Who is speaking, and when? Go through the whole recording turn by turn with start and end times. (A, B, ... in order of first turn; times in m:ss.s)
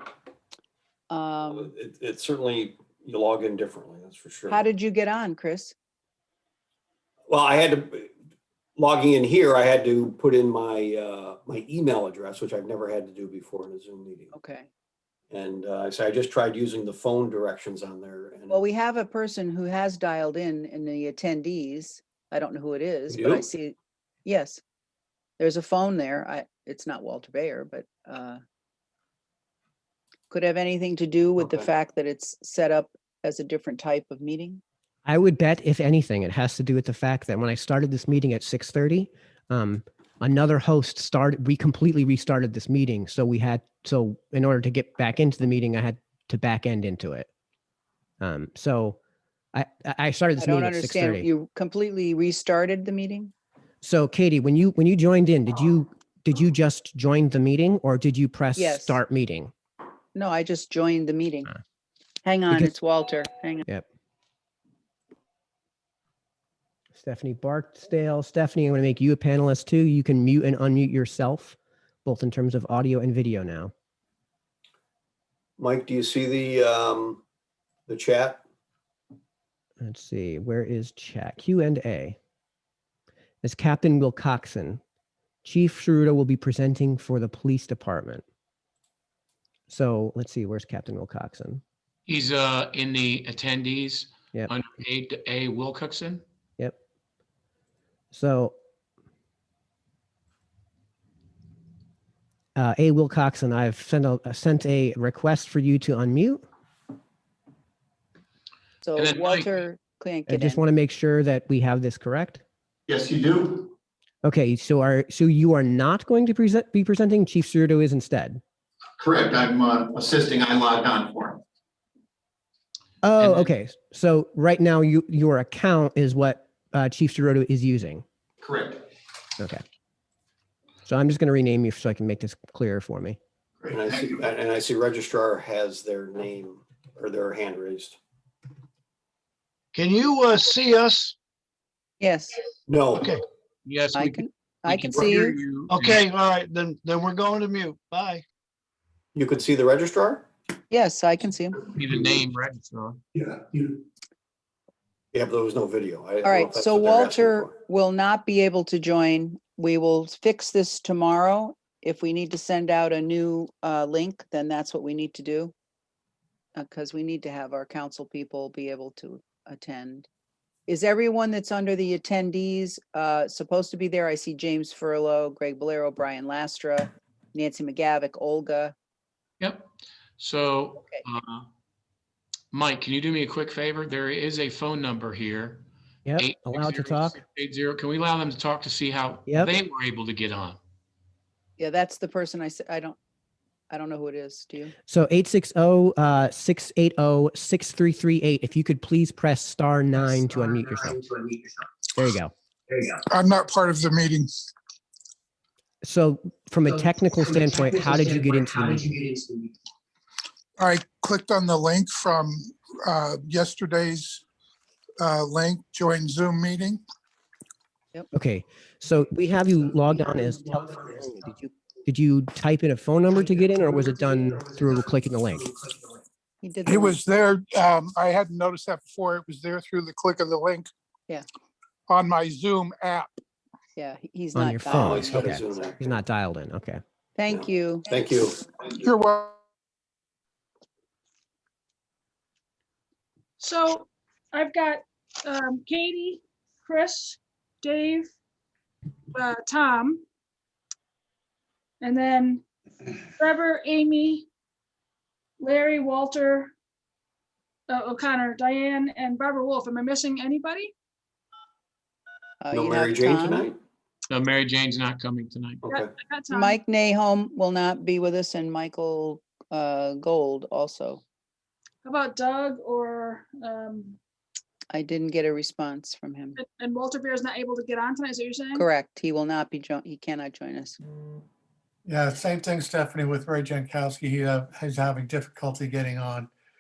0:01.1-0:01.7 A
0:01.5-0:04.6 B
0:04.5-0:05.8 A
0:07.3-0:08.1 B
0:08.8-0:14.3 B
0:14.3-0:14.7 A
0:15.3-0:18.6 B
0:18.5-0:24.6 A
0:23.1-0:23.5 B
0:25.4-0:28.4 A
0:30.3-0:34.6 A
0:31.4-0:31.7 B
0:35.1-0:47.3 C
0:48.2-0:49.0 C
0:49.5-0:51.3 C
0:50.4-0:53.3 A
0:53.8-0:59.5 C
0:58.6-0:59.0 A
1:00.2-1:01.5 A
1:02.2-1:03.6 A
1:07.0-1:13.7 C
1:15.6-1:17.2 B
1:17.9-1:18.4 B
1:19.8-1:22.2 C
1:23.4-1:24.8 C
1:25.4-1:28.2 C
1:29.7-1:31.6 C
1:32.1-1:36.2 D
1:38.1-1:38.6 C
1:42.6-1:46.4 C
1:48.8-1:50.6 A
1:49.0-1:49.6 D
1:50.3-1:52.4 C
1:53.0-1:53.4 B
1:54.2-1:58.4 C
2:03.0-2:08.0 C
2:03.2-2:03.5 D
2:10.9-2:13.2 C
2:13.6-2:18.0 B
2:19.7-2:21.2 E
2:22.0-2:22.4 A
2:22.7-2:23.2 B
2:23.7-2:26.1 D
2:23.9-2:25.4 A
2:25.7-2:28.2 E
2:29.2-2:30.3 B
2:30.7-2:31.7 A
2:31.7-2:33.0 D
2:35.1-2:37.5 B
2:36.2-2:45.5 A
2:46.6-2:50.1 A
2:50.7-2:58.7 A
2:59.4-3:01.5 D
3:02.5-3:05.6 D
3:06.1-3:07.2 C
3:06.2-3:10.6 D
3:09.3-3:09.5 C
3:11.6-3:13.0 A
3:13.7-3:14.7 A
3:14.9-3:21.0 C
3:20.9-3:21.5 F
3:22.0-3:22.3 C
3:22.7-3:23.0 F
3:23.1-3:24.3 G
3:25.8-3:28.9 C
3:27.4-3:29.5 F
3:30.6-3:34.2 G
3:35.0-3:36.8 G
3:38.1-3:45.5 C
3:46.4-3:47.0 A
3:46.7-3:50.7 G
3:51.9-3:53.1 G
3:53.8-3:55.2 A
3:54.3-3:56.8 C
3:54.7-3:56.0 B
3:57.2-3:57.9 A
3:57.3-3:58.7 B
3:58.7-3:59.4 G
4:03.4-4:08.1 H
4:09.1-4:10.0 H
4:11.8-4:12.4 H
4:13.2-4:14.3 H
4:15.4-4:16.5 H
4:17.7-4:20.7 H
4:22.4-4:23.5 A
4:22.5-4:23.6 B
4:24.1-4:25.7 D
4:25.6-4:25.9 B
4:25.7-4:26.6 H
4:26.3-4:31.0 A
4:31.8-4:34.0 H
4:34.7-4:36.4 A
4:36.4-4:38.7 H
4:38.6-4:40.8 A
4:41.9-4:46.3 I